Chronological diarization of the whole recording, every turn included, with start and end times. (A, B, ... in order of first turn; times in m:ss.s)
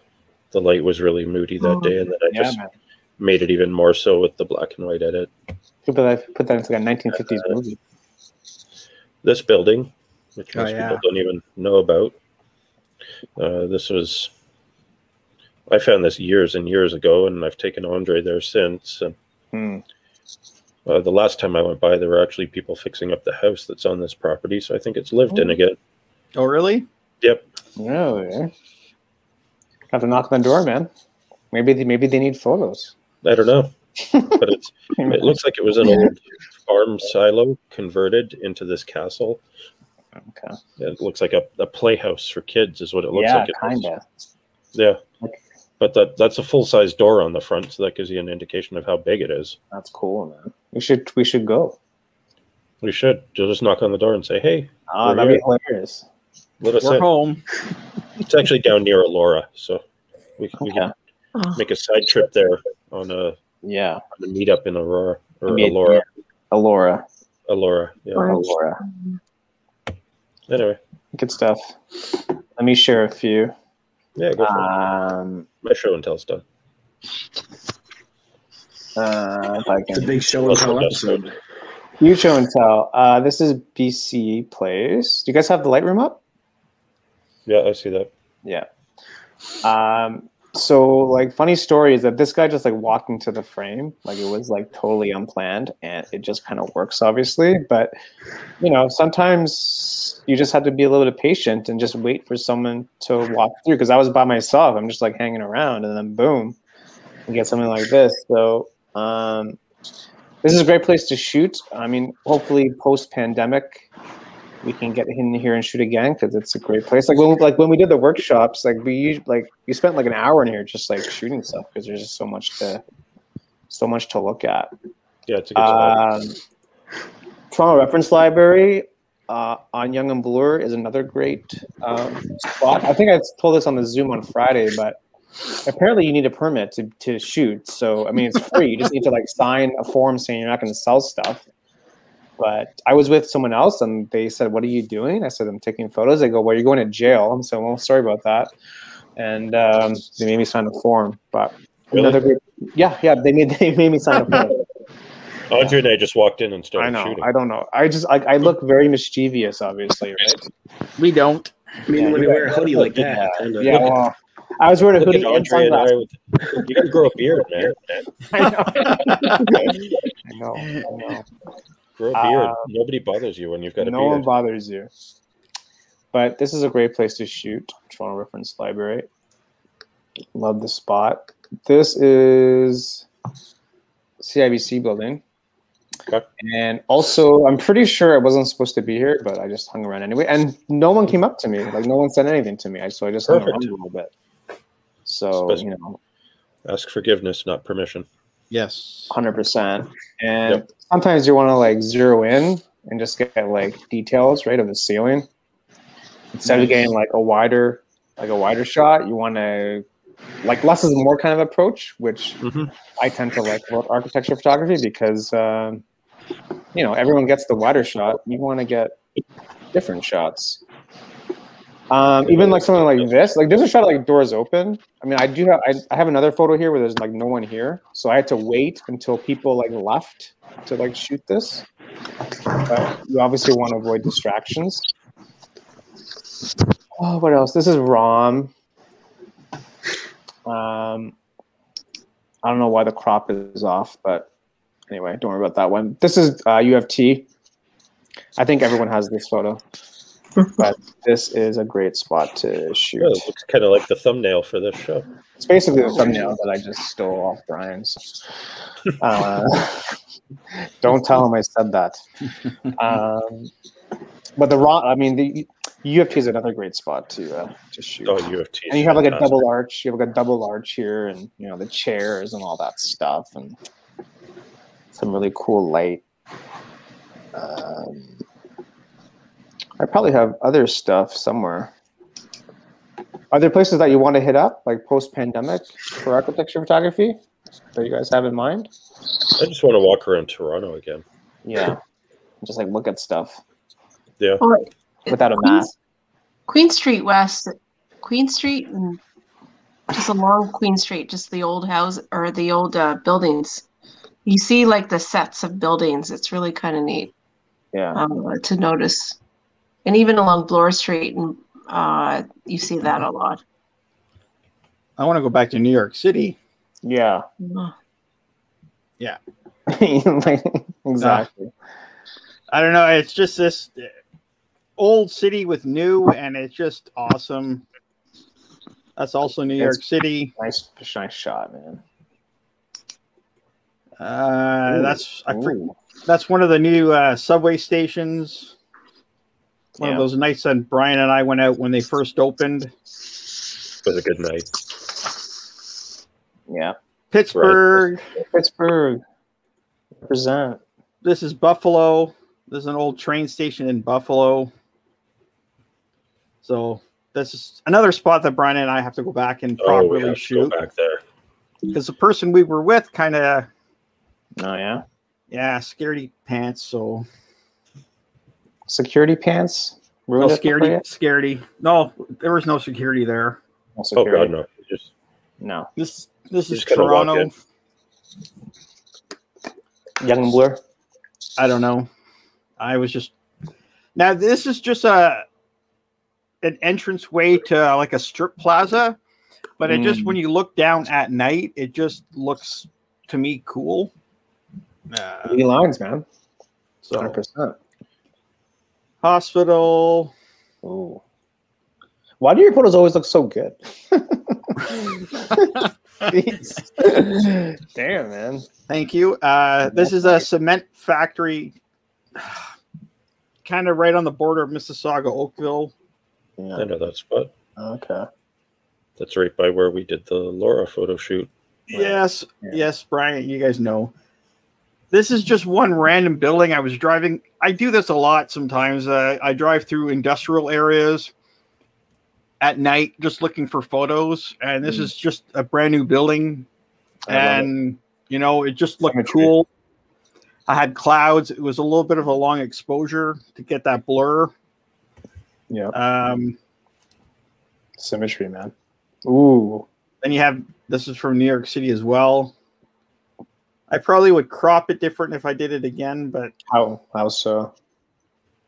0:00.5-0:02.6 A
0:01.6-0:01.9 B
0:02.3-0:02.7 C
0:03.2-0:05.3 A
0:05.8-0:07.8 C
0:07.1-0:07.5 A
0:09.2-0:12.1 A
0:10.5-0:11.0 D
0:13.4-0:14.3 A
0:15.7-0:19.1 A
0:19.5-0:19.8 C
0:20.8-0:25.8 A
0:26.3-0:26.8 D
0:27.8-0:28.5 C
0:29.9-0:30.9 C
0:31.5-0:32.9 C
0:33.2-0:33.7 A
0:34.1-0:34.4 C
0:34.3-0:39.4 A
0:35.0-0:36.1 C
0:40.2-0:40.6 C
0:40.8-0:43.9 A
0:43.1-0:44.0 C
0:44.7-0:45.0 A
0:45.8-0:49.6 A
0:49.7-0:51.8 C
0:52.8-0:55.4 A
0:54.9-0:56.0 C
0:56.6-0:57.1 A
0:56.8-0:57.4 D
0:58.2-0:59.8 A
1:00.4-1:00.9 A
1:00.6-1:00.9 C
1:01.3-1:01.6 B
1:01.6-1:03.4 A
1:03.6-1:04.0 C
1:04.1-1:06.0 A
1:05.5-1:07.0 C
1:07.5-1:08.4 A
1:08.2-1:09.2 B
1:08.2-1:08.8 C
1:10.5-1:10.8 A
1:11.1-1:11.8 C
1:12.6-1:13.5 C
1:14.2-1:14.7 A
1:14.4-1:15.4 C
1:15.6-1:16.4 A
1:19.0-1:20.1 C
1:19.9-1:21.3 E
1:20.4-1:21.2 A
1:22.0-1:26.2 C
1:27.4-1:28.1 A
1:29.6-1:37.9 C
1:38.6-1:46.6 C
1:47.3-1:49.6 C
1:50.4-1:53.8 C
1:54.6-2:02.8 C
2:03.7-2:04.7 C
2:05.3-2:06.1 A
2:05.5-2:06.4 C
2:07.5-2:15.0 C
2:15.6-2:21.4 C
2:22.4-2:28.5 C
2:29.2-2:34.6 C
2:31.9-2:32.2 A
2:35.5-2:37.3 A
2:36.8-2:40.4 C
2:41.0-2:41.5 D
2:41.9-2:43.9 E
2:41.9-2:46.7 C
2:45.0-2:48.1 A
2:48.3-2:51.2 C
2:48.8-2:49.3 D
2:52.0-2:54.3 A
2:52.1-2:52.7 C
2:53.8-2:54.9 C
2:56.1-2:59.1 C
3:00.3-3:03.0 C
3:04.2-3:05.2 C
3:06.4-3:14.1 C
3:13.3-3:13.7 A
3:15.0-3:16.0 C
3:16.6-3:18.1 A
3:18.5-3:19.1 D
3:19.1-3:25.3 C
3:26.3-3:29.8 C
3:26.5-3:26.8 A
3:30.4-3:32.4 C
3:32.4-3:32.7 A
3:33.0-3:35.8 C
3:36.7-3:38.9 C
3:39.7-3:40.6 C
3:41.9-3:51.6 C
3:42.2-3:43.1 A
3:52.6-3:54.8 C
3:57.0-3:58.5 C
4:00.4-4:01.1 C
4:02.4-4:04.3 C
4:04.9-4:07.3 C
4:08.4-4:09.6 C
4:10.5-4:13.3 C
4:13.0-4:15.1 A
4:15.4-4:18.2 C
4:19.0-4:19.9 C
4:20.8-4:22.0 C
4:22.6-4:23.5 C
4:24.4-4:28.2 C
4:28.0-4:29.4 A
4:28.7-4:33.6 C
4:34.9-4:36.0 C
4:37.3-4:38.2 C
4:39.8-4:41.7 C
4:43.3-4:47.2 C
4:47.8-4:48.7 C
4:49.4-4:51.0 A
4:51.4-4:51.8 C
4:52.4-4:53.4 C
4:54.4-4:55.7 B
4:55.1-4:55.7 C
4:56.5-4:59.0 B
4:59.9-5:03.6 B
5:04.2-5:07.1 B
5:07.7-5:08.0 C
5:07.9-5:09.2 B
5:09.8-5:13.4 B
5:15.0-5:16.4 D
5:16.8-5:17.2 C
5:17.4-5:17.7 B
5:19.7-5:21.5 C
5:21.0-5:21.2 D
5:22.5-5:23.9 D
5:24.8-5:27.6 D
5:29.0-5:30.3 D
5:30.4-5:31.8 C
5:34.0-5:38.5 D
5:34.7-5:35.7 C
5:39.8-5:40.1 C
5:39.8-5:42.7 D
5:43.8-5:44.5 A
5:46.5-5:46.8 C
5:47.1-5:48.0 D
5:47.3-5:47.9 A
5:48.2-5:49.0 C
5:50.0-5:50.6 C
5:51.0-5:54.5 D
5:56.4-6:00.5 D
5:59.6-6:01.0 A
6:01.7-6:03.5 D
6:04.4-6:04.8 C
6:05.3-6:07.0 D
6:08.7-6:10.8 C
6:10.2-6:13.4 D
6:13.8-6:14.3 C
6:13.9-6:14.9 A
6:15.4-6:15.7 C
6:15.8-6:17.3 D
6:16.5-6:17.3 A
6:20.0-6:20.6 C
6:21.4-6:21.9 D
6:22.6-6:23.1 D
6:23.9-6:25.2 D
6:26.4-6:29.0 D
6:29.6-6:33.9 D
6:29.6-6:30.2 C
6:34.9-6:35.4 D
6:35.2-6:36.0 C
6:36.8-6:37.2 D
6:37.0-6:37.6 C
6:39.0-6:40.1 D
6:40.6-6:41.0 C
6:42.2-6:48.4 C
6:48.7-6:51.5 D
6:49.7-6:50.2 C
6:53.4-6:55.7 D
6:56.4-6:56.6 C
6:56.6-6:57.3 A
6:57.6-6:58.1 C
6:59.0-7:01.9 A
7:01.7-7:03.9 D
7:04.9-7:11.1 D
7:12.4-7:16.4 D
7:14.6-7:14.9 C
7:17.1-7:17.5 C
7:17.1-7:19.5 D
7:18.8-7:19.3 C
7:20.5-7:24.3 D
7:25.5-7:25.8 C
7:25.7-7:26.4 D
7:27.8-7:28.5 C
7:29.0-7:29.6 C
7:30.0-7:32.3 D
7:33.7-7:36.3 D
7:36.5-7:37.5 C